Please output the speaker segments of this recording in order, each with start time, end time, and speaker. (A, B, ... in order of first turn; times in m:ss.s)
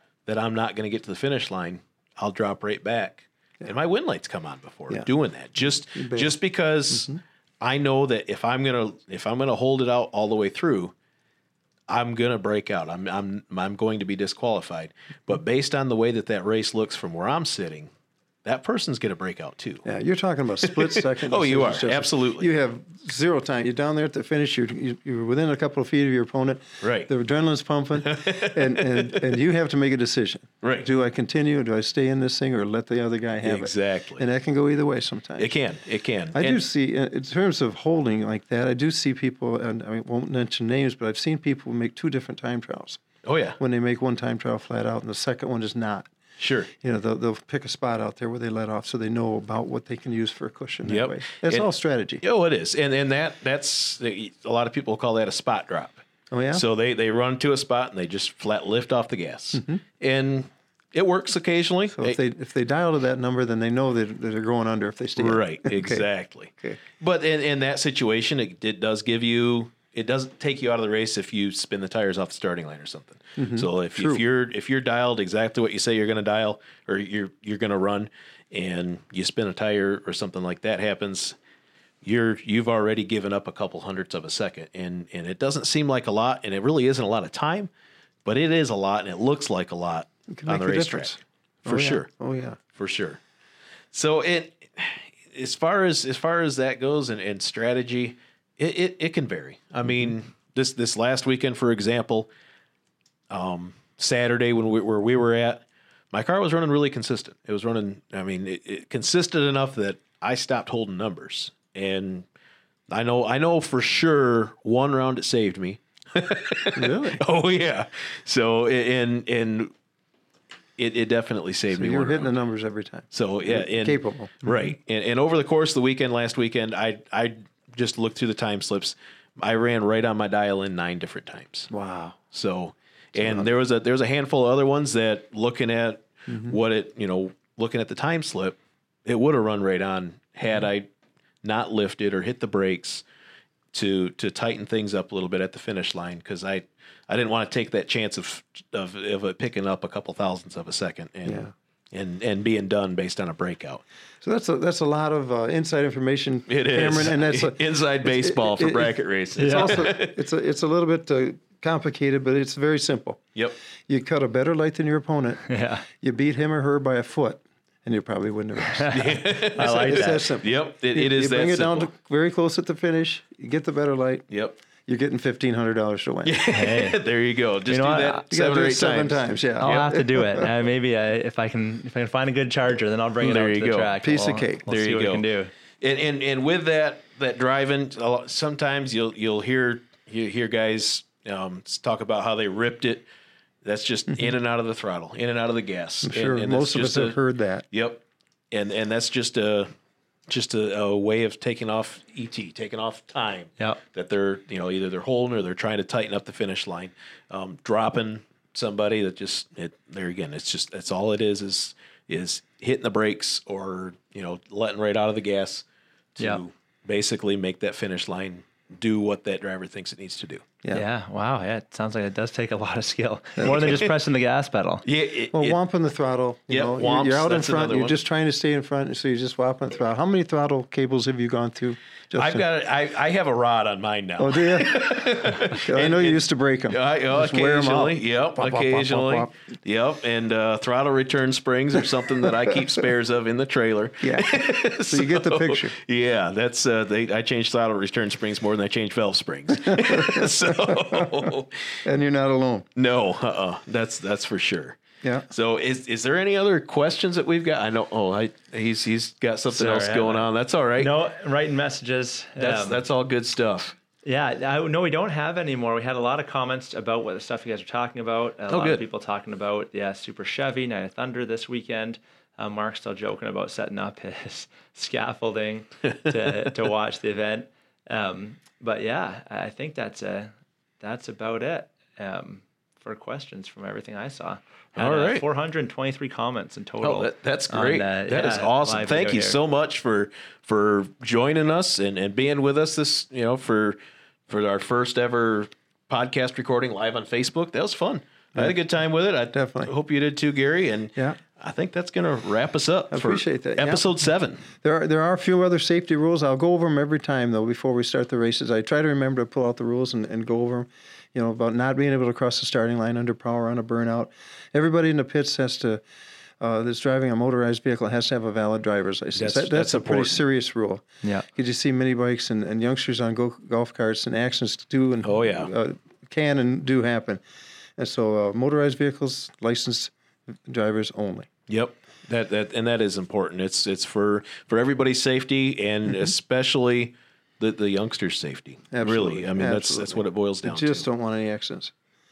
0:00.3-0:10.9 A
0:05.6-0:06.4 B
0:06.9-0:07.2 B
0:11.9-0:17.9 A
0:18.4-0:19.8 A
0:19.8-0:35.5 B
0:20.6-0:22.5 A
0:26.8-0:27.1 A
0:28.0-0:29.4 A
0:30.6-0:30.9 A
0:33.4-0:34.2 A
0:35.4-0:36.6 A
0:36.3-0:43.0 B
0:43.2-0:43.6 A
0:43.6-0:46.1 B
0:46.4-0:46.7 A
0:46.8-0:52.2 B
0:50.9-0:51.7 A
0:52.2-1:02.2 A
0:56.3-0:56.6 B
0:59.6-0:59.8 B
1:02.0-1:06.0 B
1:05.2-1:21.4 A
1:13.4-1:14.2 B
1:22.0-1:27.7 A
1:28.2-1:32.1 A
1:30.3-1:32.6 B
1:32.7-1:33.2 A
1:33.9-1:42.3 A
1:43.3-1:52.3 A
1:52.9-1:59.7 A
1:56.8-1:57.2 B
2:00.8-2:02.3 A
2:01.7-2:04.6 B
2:03.1-2:11.7 A
2:11.7-2:12.2 B
2:12.3-2:20.9 A
2:13.2-2:13.5 B
2:21.4-2:23.0 A
2:23.7-2:33.8 A
2:31.3-2:31.5 B
2:34.2-2:43.2 B
2:36.5-2:40.2 A
2:39.4-2:39.8 C
2:43.9-2:45.4 B
2:45.5-2:45.8 C
2:46.0-2:48.9 B
2:48.7-2:50.3 C
2:48.9-2:51.9 A
2:49.6-2:54.3 B
2:54.3-2:54.6 A
2:54.9-2:56.4 B
2:56.2-2:59.9 A
2:56.5-2:57.0 C
2:57.7-2:58.2 C
2:58.3-3:00.5 B
2:59.6-3:05.5 C
3:03.2-3:03.9 A
3:04.0-3:04.6 B
3:04.7-3:05.3 A
3:05.8-3:13.1 A
3:13.6-3:17.2 A
3:16.0-3:17.6 B
3:17.7-3:19.7 A
3:20.3-3:35.6 A
3:36.2-3:40.4 A
3:40.7-3:44.8 C
3:43.4-3:43.9 A
3:44.8-3:45.6 A
3:45.3-3:52.4 B
3:46.5-3:48.0 A
3:52.2-4:11.8 A
3:54.2-3:59.3 B
4:02.3-4:02.6 B
4:04.0-4:05.8 B
4:09.6-4:11.3 B
4:11.8-4:12.7 B
4:12.8-4:14.8 A
4:15.3-4:20.9 A
4:19.5-4:22.8 C
4:22.4-4:23.8 A
4:24.0-4:49.4 C
4:28.5-4:28.8 A
4:36.1-4:36.5 A
4:44.8-4:45.2 A
4:46.8-5:04.4 A
4:59.3-4:59.7 B
5:02.9-5:03.8 B
5:04.6-5:15.8 B
5:16.4-5:27.2 B
5:19.2-5:20.2 A
5:25.0-5:25.5 A
5:27.8-5:29.9 B
5:30.4-5:31.3 B
5:31.5-5:40.9 A
5:38.7-5:41.7 B